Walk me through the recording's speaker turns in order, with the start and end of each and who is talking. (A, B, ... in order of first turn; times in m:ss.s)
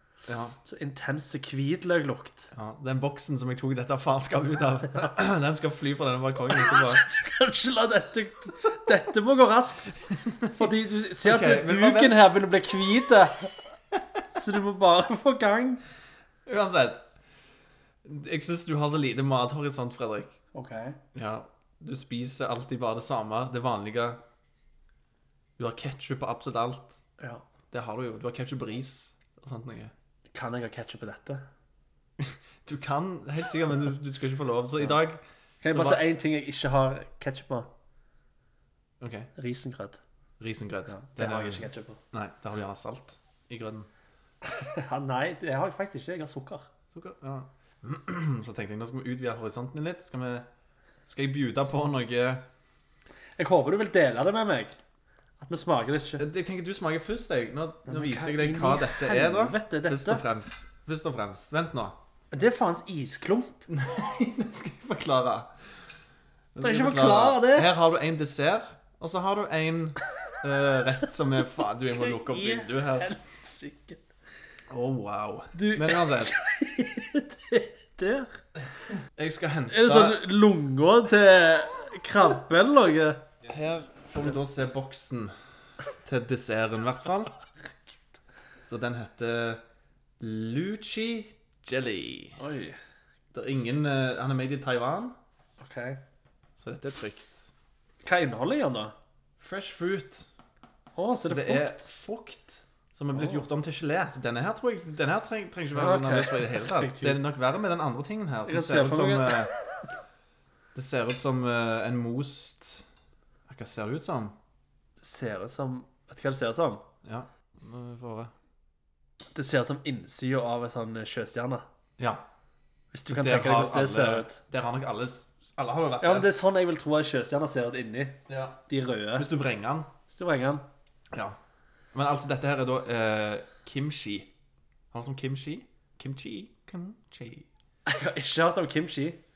0:00.3-0:00.6 A
0:00.7-0:02.5 B
0:02.5-0:07.0 A
0:06.5-0:13.7 B
0:10.3-0:10.7 A
0:11.2-0:12.2 A
0:14.3-0:15.8 B
0:16.5-0:17.1 A
0:18.0-0:20.4 A
0:20.5-0:21.0 B
0:21.2-0:24.2 A
0:25.6-0:27.0 A
0:27.2-0:27.4 B
0:27.7-0:29.9 A
0:30.3-0:31.4 B
0:32.2-0:36.0 A
0:35.6-0:37.7 B
0:39.0-0:39.3 A
0:39.4-0:40.0 B
0:40.4-0:43.9 A
0:40.9-0:42.0 B
0:44.4-0:46.7 B
0:46.9-0:50.5 A
0:51.1-0:52.5 A
0:53.4-0:54.8 B
0:55.4-0:56.2 B
0:56.2-1:02.0 A
0:57.9-1:00.2 B
1:02.3-1:03.6 B
1:03.7-1:05.5 A
1:06.6-1:13.1 A
1:06.6-1:07.7 B
1:11.9-1:14.0 B
1:14.7-1:16.3 A
1:15.6-1:18.4 B
1:19.2-1:20.2 A
1:19.7-1:23.3 B
1:23.4-1:25.3 A
1:26.0-1:27.3 A
1:28.6-1:29.6 A
1:30.2-1:32.4 A
1:32.4-1:32.8 B
1:33.3-1:35.2 A
1:35.6-1:36.0 B
1:36.6-1:37.5 A
1:38.0-1:38.9 B
1:39.4-1:40.3 A
1:41.0-1:41.8 B
1:41.2-1:49.5 A
1:43.2-1:43.4 B
1:45.7-1:47.2 B
1:48.5-1:49.9 B
1:50.8-1:52.9 A
1:53.5-1:54.4 A
1:55.0-1:56.8 B
1:57.0-1:58.3 A
1:59.4-2:01.6 B
2:02.0-2:02.2 A
2:02.9-2:04.4 B
2:03.1-2:06.3 A
2:06.0-2:09.3 B
2:08.3-2:08.6 A
2:09.2-2:09.9 A
2:10.1-2:10.6 B
2:11.1-2:11.4 A
2:11.9-2:14.3 A
2:14.9-2:17.5 A
2:17.9-2:19.2 B